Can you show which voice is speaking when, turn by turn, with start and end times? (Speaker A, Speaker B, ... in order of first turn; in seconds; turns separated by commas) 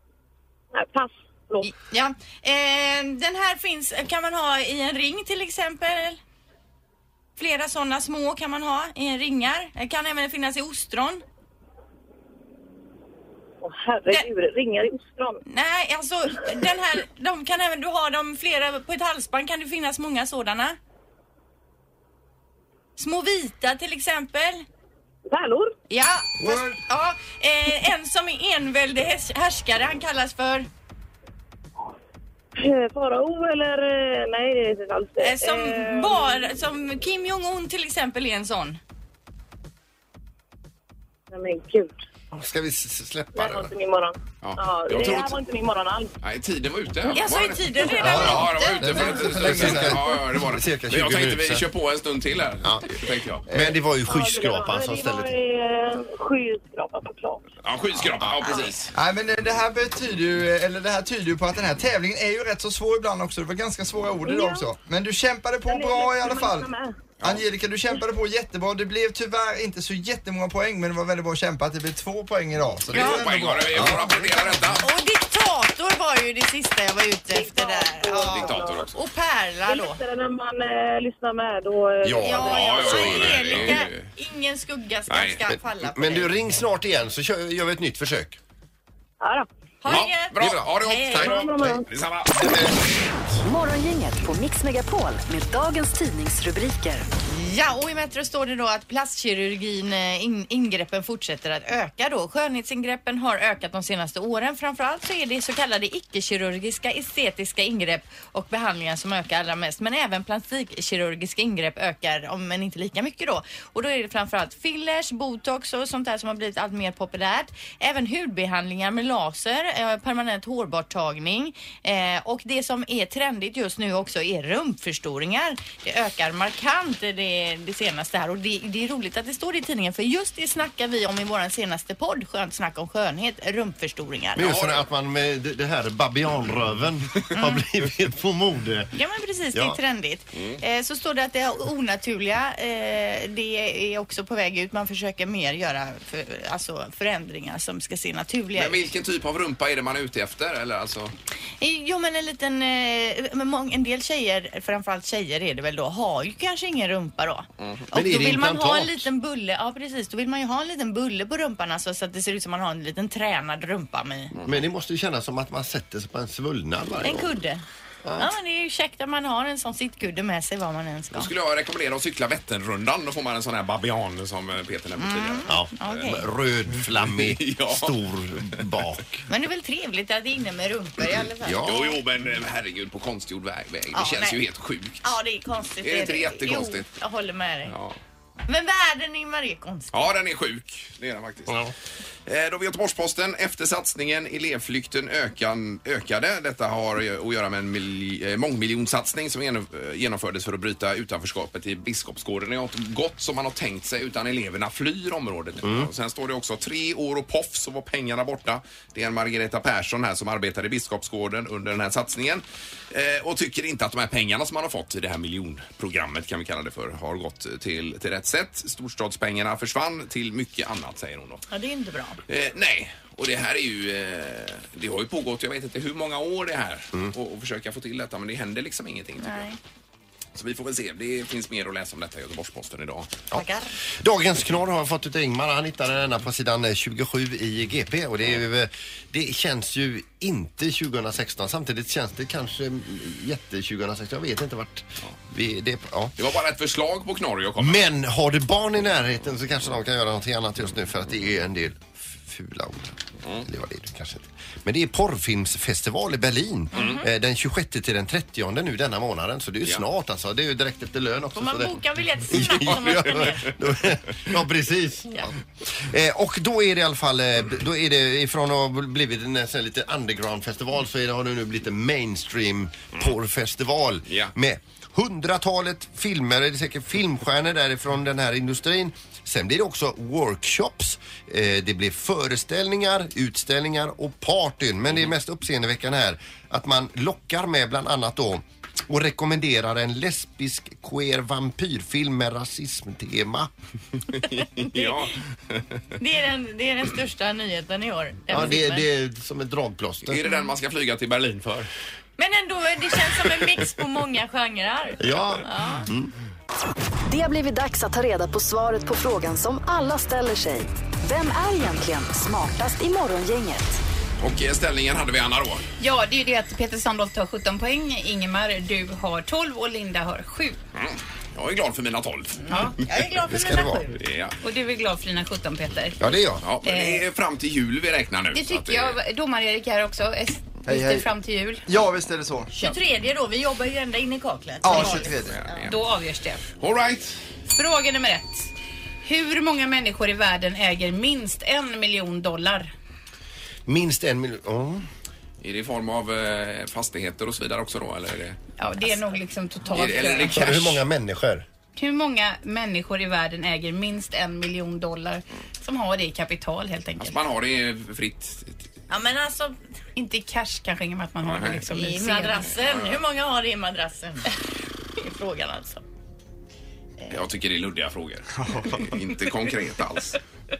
Speaker A: 0.7-1.7, Speaker B: 1.6-6.2, Speaker B: 7.4-11.2, Speaker A: 13.6-15.4, Speaker B: 15.4-20.8, Speaker B: 23.0-24.6, Speaker A: 25.3-25.7, Speaker B: 25.9-30.7, Speaker C: 26.4-26.8, Speaker A: 32.6-36.4, Speaker B: 35.2-38.8, Speaker A: 41.3-41.9, Speaker D: 42.3-43.7, Speaker A: 43.3-46.1, Speaker E: 44.4-45.3, Speaker E: 46.2-53.4, Speaker B: 47.1-49.2, Speaker C: 48.0-50.0, Speaker D: 48.0-48.4, Speaker D: 49.0-51.7, Speaker D: 52.6-52.9, Speaker D: 53.5-55.4, Speaker C: 53.5-53.8, Speaker A: 54.0-57.4, Speaker E: 57.6-58.9, Speaker A: 58.4-58.7, Speaker C: 58.9-66.7, Speaker A: 64.2-64.7, Speaker A: 65.7-67.1, Speaker C: 67.2-74.7, Speaker E: 72.9-74.8, Speaker B: 72.9-73.3, Speaker B: 74.8-80.0, Speaker A: 77.3-78.9, Speaker E: 78.2-78.9, Speaker A: 79.7-83.1, Speaker D: 82.0-83.8, Speaker B: 82.2-86.3, Speaker E: 82.4-84.1, Speaker E: 85.1-85.4, Speaker D: 85.5-88.4, Speaker A: 89.2-89.5, Speaker B: 89.8-91.4, Speaker E: 89.9-92.7, Speaker A: 91.2-91.8, Speaker F: 93.4-97.1, Speaker B: 97.3-134.4, Speaker D: 134.3-139.0, Speaker E: 134.4-134.8, Speaker B: 138.9-148.8, Speaker D: 139.5-139.8, Speaker E: 140.3-140.6, Speaker E: 148.5-151.1, Speaker B: 151.6-164.3, Speaker D: 157.9-159.1, Speaker E: 164.3-164.6, Speaker D: 164.4-167.3, Speaker B: 167.0-167.6, Speaker D: 168.0-168.3, Speaker B: 168.2-171.3, Speaker E: 171.1-175.4, Speaker B: 175.0-176.2, Speaker D: 175.5-179.2, Speaker E: 177.0-178.0, Speaker B: 179.3-181.9, Speaker D: 181.4-181.8, Speaker E: 181.6-185.0, Speaker B: 183.9-184.4, Speaker B: 185.0-187.7, Speaker E: 185.8-186.9, Speaker E: 187.7-188.0, Speaker B: 188.4-190.0, Speaker E: 189.9-191.6, Speaker D: 191.5-191.7, Speaker E: 192.2-221.4, Speaker D: 205.6-205.9, Speaker B: 221.5-222.2, Speaker E: 222.3-229.4, Speaker B: 229.2-229.6, Speaker E: 230.3-233.1, Speaker D: 233.3-246.2, Speaker B: 233.3-233.7, Speaker E: 246.2-247.8, Speaker D: 247.6-293.5, Speaker B: 256.7-257.0, Speaker E: 256.7-257.0, Speaker B: 261.3-263.5, Speaker E: 274.1-274.3, Speaker E: 294.1-295.8, Speaker B: 294.5-295.1, Speaker B: 296.0-298.9, Speaker D: 298.3-300.4, Speaker E: 300.0-301.7, Speaker B: 302.2-305.9, Speaker D: 305.0-306.1, Speaker F: 307.1-313.8, Speaker E: 314.2-315.6, Speaker G: 315.8-320.6, Speaker E: 320.7-322.4, Speaker B: 322.4-324.0, Speaker D: 323.2-323.9, Speaker E: 323.9-324.4, Speaker G: 324.4-327.0, Speaker D: 326.0-326.5, Speaker E: 326.4-329.0, Speaker G: 328.3-331.6, Speaker C: 330.6-331.1, Speaker C: 331.7-332.5, Speaker B: 332.5-335.6, Speaker C: 334.6-335.4, Speaker E: 334.7-335.8, Speaker G: 335.6-336.4, Speaker E: 336.6-337.2, Speaker G: 337.5-338.5, Speaker G: 339.0-342.7, Speaker D: 343.6-344.9, Speaker E: 345.4-348.4, Speaker G: 348.6-350.4, Speaker E: 349.7-350.8, Speaker D: 350.3-351.4, Speaker G: 351.8-357.2, Speaker E: 357.0-358.7, Speaker B: 358.9-359.6, Speaker G: 359.9-362.5, Speaker E: 361.2-361.7, Speaker B: 361.7-364.4, Speaker E: 362.5-363.0, Speaker B: 365.0-365.8, Speaker E: 367.1-370.2, Speaker C: 368.4-369.0